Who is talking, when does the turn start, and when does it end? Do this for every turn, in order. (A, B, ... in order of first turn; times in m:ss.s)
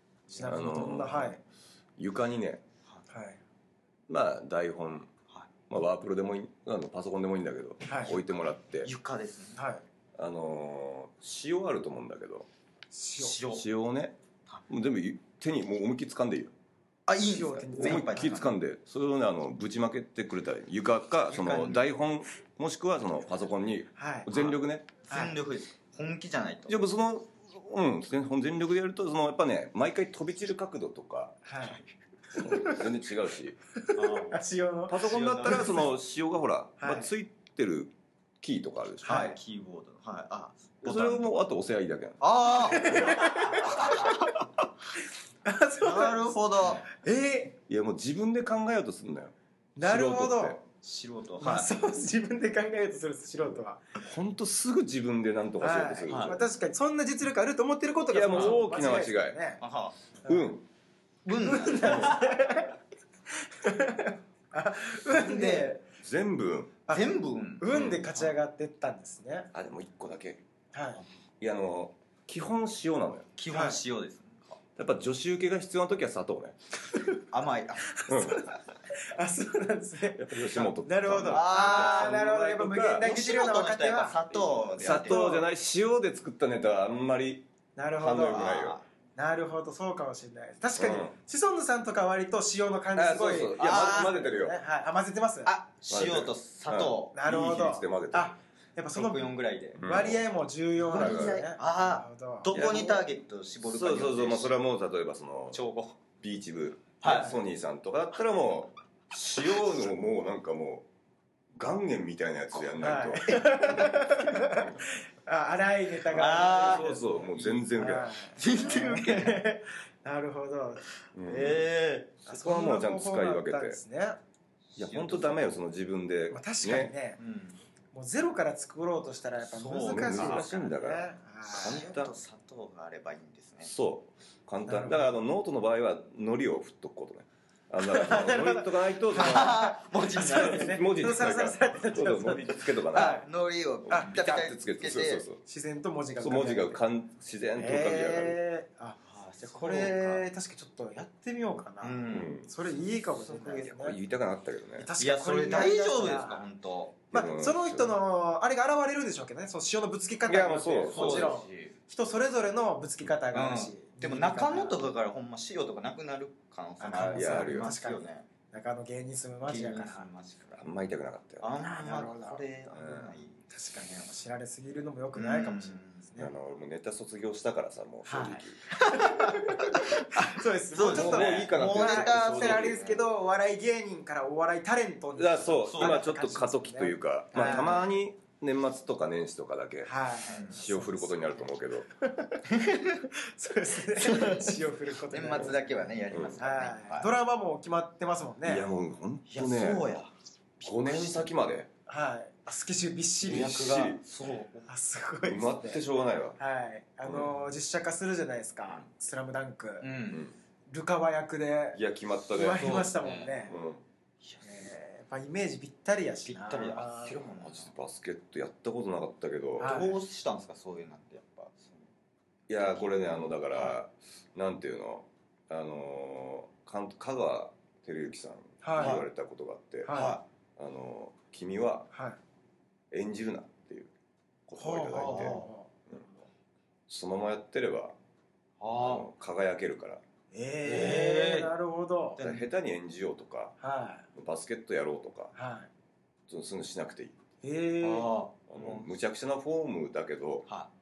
0:00.3-0:01.4 A
0:00.4-0:01.4 B
0:02.0-0:02.6 B
0:03.1-0:03.4 A
0:04.1-0:05.1 B
0:05.7-0:08.9 B
0:07.9-0:08.2 A
0:08.8-0:09.6 C
0:09.6-0:09.8 A
0:10.2-0:12.5 B
0:12.9-0:13.4 A
0:13.2-0:13.6 C
0:13.5-0:14.2 B
0:14.7-0:16.5 B
0:17.1-0:18.6 C
0:17.2-0:18.4 A
0:17.8-0:24.9 B
0:21.3-0:21.9 C
0:24.0-0:24.3 A
0:24.3-0:26.8 C
0:26.7-0:31.4 B
0:31.4-0:31.8 A
0:32.3-0:33.6 B
0:32.4-0:32.8 A
0:33.8-0:35.8 A
0:34.0-0:34.4 C
0:34.9-0:39.2 B
0:35.0-0:35.9 C
0:36.8-0:37.1 A
0:39.0-0:39.4 A
0:39.0-0:41.3 C
0:40.8-0:42.2 B
0:42.2-0:44.3 C
0:42.7-0:44.2 A
0:42.7-0:43.1 B
0:45.4-0:46.4 A
0:45.8-0:46.8 C
0:46.9-0:47.6 A
0:47.7-0:50.6 B
0:49.8-0:50.6 A
0:50.8-0:51.7 C
0:51.4-0:53.8 A
0:54.0-0:56.4 B
0:55.6-0:59.6 A
0:56.1-0:56.4 C
0:58.1-0:59.4 B
0:58.3-0:58.6 C
0:59.6-1:00.0 C
1:00.3-1:00.7 B
1:01.2-1:02.3 C
1:01.4-1:02.8 A
1:01.9-1:02.1 B
1:03.5-1:05.8 A
1:05.1-1:05.7 C
1:06.0-1:06.8 B
1:06.9-1:09.5 A
1:06.9-1:08.3 C
1:07.7-1:08.0 B
1:09.5-1:10.4 B
1:10.7-1:11.0 A
1:11.4-1:13.3 B
1:13.4-1:14.6 C
1:13.5-1:13.8 A
1:14.8-1:16.6 B
1:17.3-1:18.0 C
1:18.0-1:24.2 A
1:18.1-1:18.4 B
1:20.2-1:23.1 B
1:21.3-1:22.3 C
1:23.0-1:25.2 C
1:24.8-1:25.4 A
1:24.8-1:28.8 B
1:27.8-1:28.5 A
1:28.3-1:28.8 C
1:29.2-1:35.5 A
1:30.8-1:31.1 B
1:33.0-1:34.6 B
1:33.6-1:34.2 C
1:35.5-1:37.2 C
1:35.9-1:38.3 B
1:37.1-1:42.6 A
1:39.0-1:39.8 C
1:39.8-1:40.2 B
1:40.8-1:44.5 C
1:40.9-1:41.4 B
1:42.5-1:43.1 B
1:43.6-1:45.6 B
1:45.5-1:46.0 C
1:46.2-1:50.9 B
1:47.0-1:47.4 C
1:47.1-1:47.3 A
1:51.6-1:54.8 B
1:52.8-2:00.8 A
1:56.1-1:58.1 B
1:56.1-1:59.4 C
2:01.2-2:01.7 B
2:01.2-2:02.2 C
2:02.3-2:04.2 A
2:02.3-2:03.8 B
2:04.7-2:05.6 C
2:04.8-2:06.9 B
2:06.3-2:07.2 A
2:07.2-2:07.6 C
2:07.9-2:11.8 A
2:09.4-2:10.5 C
2:09.8-2:12.1 B
2:11.5-2:13.7 C
2:13.6-2:23.2 B
2:14.7-2:15.1 A
2:17.8-2:23.2 A
2:19.2-2:20.8 C
2:22.9-2:25.2 C
2:23.9-2:24.4 A
2:23.9-2:25.4 B
2:25.4-2:26.8 A
2:26.2-2:28.4 B
2:27.6-2:34.0 A
2:29.1-2:30.3 C
2:31.8-2:32.3 C
2:32.1-2:32.5 B
2:33.3-2:34.9 B
2:34.8-2:36.4 A
2:35.0-2:37.0 C
2:37.1-2:38.0 B
2:37.1-2:44.8 A
2:40.3-2:41.4 B
2:40.9-2:41.7 C
2:43.3-2:48.3 C
2:46.8-2:50.1 A
2:47.1-2:47.7 B
2:49.5-2:50.6 C
2:50.6-2:51.5 B
2:51.4-2:53.4 C
2:51.6-2:52.4 A
2:52.7-2:53.2 B
2:53.5-2:56.3 A
2:55.2-2:56.1 C
2:56.2-2:58.6 B
2:58.1-3:07.8 A
2:58.8-3:03.1 C
3:00.8-3:02.9 B
3:05.2-3:11.9 B
3:05.7-3:06.0 C
3:07.3-3:07.9 C
3:09.8-3:11.5 A
3:10.3-3:10.6 C
3:12.0-3:15.6 A
3:12.5-3:12.9 C
3:13.9-3:17.1 C
3:16.1-3:16.4 B
3:16.4-3:18.7 A
3:18.4-3:19.9 B
3:19.3-3:21.3 C
3:20.6-3:21.7 B
3:21.9-3:23.6 A
3:23.3-3:24.7 C
3:23.3-3:24.0 B
3:24.7-3:25.8 A
3:25.2-3:26.4 B
3:26.4-3:29.9 A
3:27.0-3:27.3 B
3:29.8-3:30.3 C
3:30.7-3:31.8 A
3:31.8-3:32.9 B
3:32.3-3:33.6 A
3:32.6-3:33.5 C
3:33.5-3:33.8 B
3:34.2-3:34.7 C
3:34.4-3:37.2 A
3:36.2-3:37.7 C
3:37.4-3:39.8 B
3:39.6-3:40.0 A
3:39.6-3:41.9 C
3:42.5-3:49.9 B
3:42.6-3:43.8 C
3:48.6-3:49.0 A
3:48.8-3:49.1 C
3:49.8-3:50.2 A
3:49.9-3:50.2 C
3:50.6-3:51.9 B
3:51.9-3:52.2 A
3:52.9-3:53.9 B
3:54.5-3:56.0 B
3:54.6-3:55.7 A
3:55.0-3:55.5 C
3:56.9-3:58.0 B
3:58.6-3:59.1 C
3:58.8-4:00.0 B
4:00.3-4:02.2 A
4:00.6-4:01.5 C
4:02.2-4:02.5 C
4:02.2-4:03.6 B
4:03.6-4:04.1 A
4:04.2-4:05.3 B
4:05.4-4:05.7 A
4:06.3-4:07.2 B
4:07.4-4:08.1 A
4:07.8-4:08.9 C
4:08.5-4:10.5 B